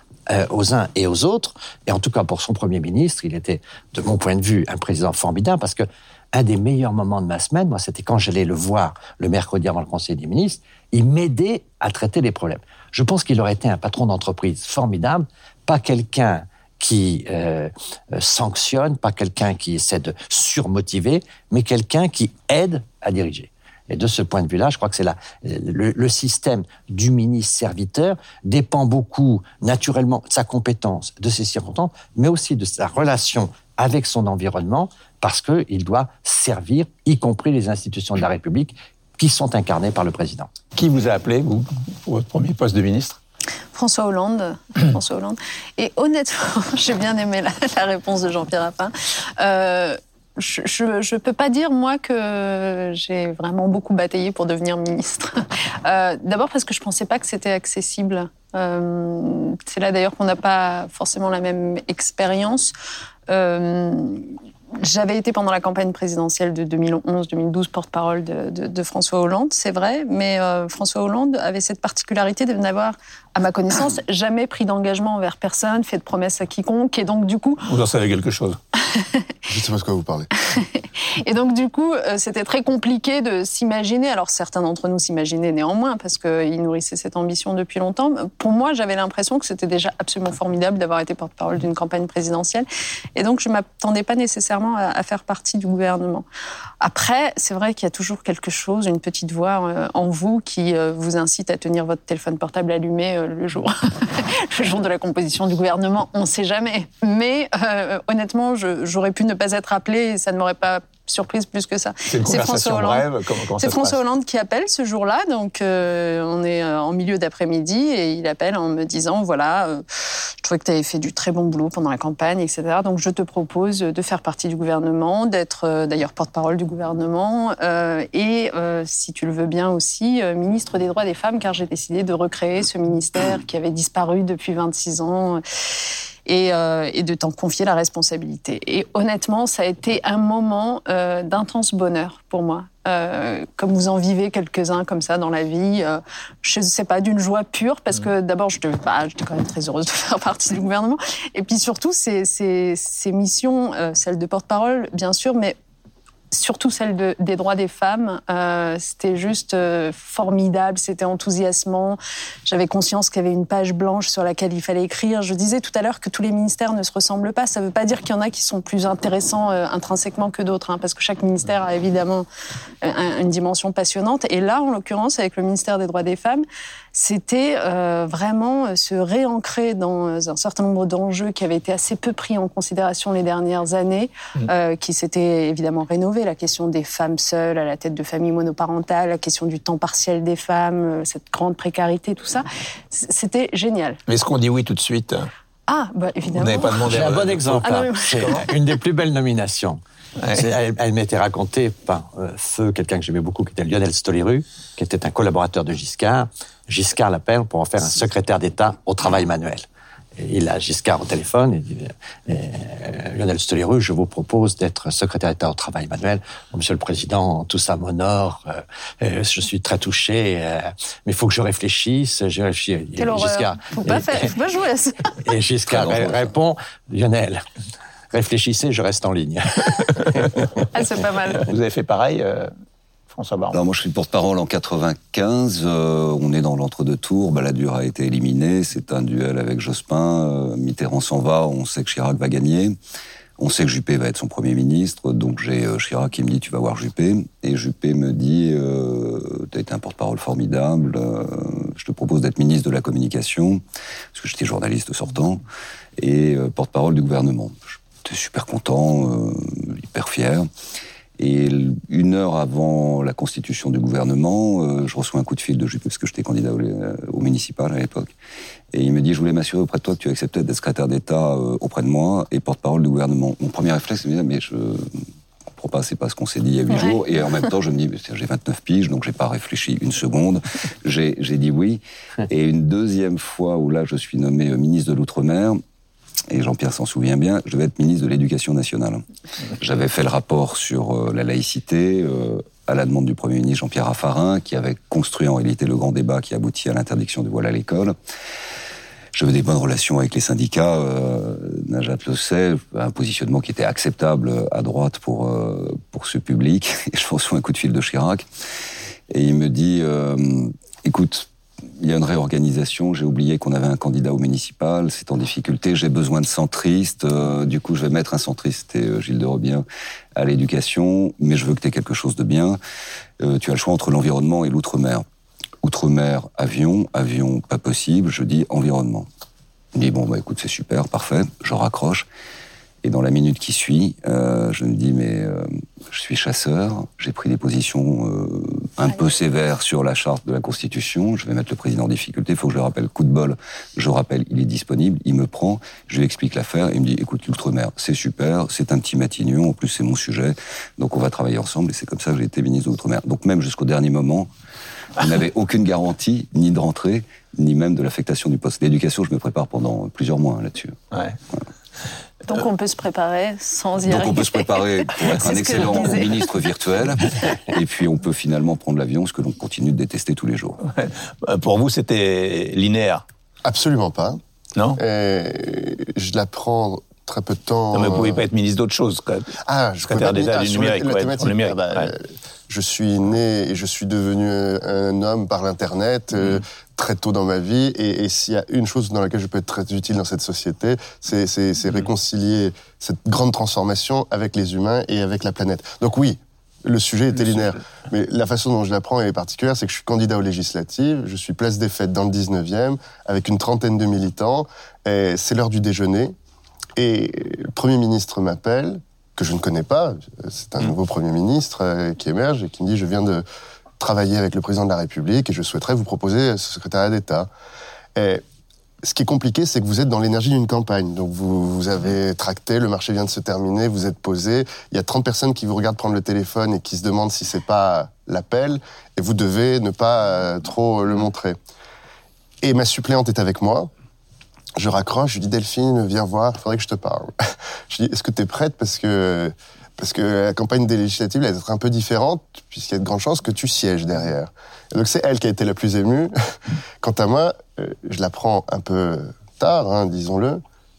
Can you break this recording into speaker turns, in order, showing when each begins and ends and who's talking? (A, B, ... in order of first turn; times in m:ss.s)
0:00.3-0:40.5 A
0:40.7-0:43.2 B
0:43.7-1:02.7 C
1:03.3-1:04.3 C
1:04.8-1:17.6 C
1:17.6-1:18.6 B
1:19.5-1:20.3 D
1:20.5-1:36.2 C
1:36.8-1:59.8 C
1:52.1-1:54.0 B
2:00.4-2:15.4 C
2:16.2-2:35.6 C
2:36.3-2:52.2 C
2:52.8-3:14.0 C
3:14.1-3:15.3 B
3:15.7-3:17.1 C
3:16.3-3:17.6 B
3:16.8-3:29.6 A
3:17.6-3:18.4 C
3:20.2-3:20.4 B
3:30.2-3:44.3 A
3:43.0-3:45.1 C
3:45.2-3:47.4 A
3:45.7-3:46.3 E
3:48.1-3:50.6 A
3:50.7-3:51.5 C
3:51.4-3:52.5 B
3:53.1-3:53.6 B
3:53.5-4:02.8 E
4:03.4-4:13.6 E
4:14.1-4:15.4 E
4:16.0-4:20.5 E
4:21.2-4:28.1 E
4:28.7-4:35.0 E
4:35.6-4:45.6 E
4:36.7-4:37.0 C
4:46.3-4:49.0 E
4:49.6-4:57.9 E
4:59.1-5:08.2 E
5:09.1-5:11.3 E
5:11.8-5:19.6 E
5:20.2-5:22.6 E
5:23.2-5:25.0 E
5:25.6-5:29.1 E
5:29.7-5:32.1 E
5:32.8-5:54.3 E
5:55.0-6:00.8 E
6:02.3-6:06.3 C
6:03.8-6:10.6 E
6:10.7-6:13.0 B
6:13.4-6:14.2 D
6:14.8-6:18.2 D
6:17.7-6:21.9 B
6:19.4-6:46.1 D
6:46.8-6:53.2 D
6:53.8-6:57.3 D
6:57.9-6:58.2 D
6:58.8-7:11.4 D
7:12.4-7:13.7 D
7:14.6-7:26.1 D
7:26.8-7:30.4 D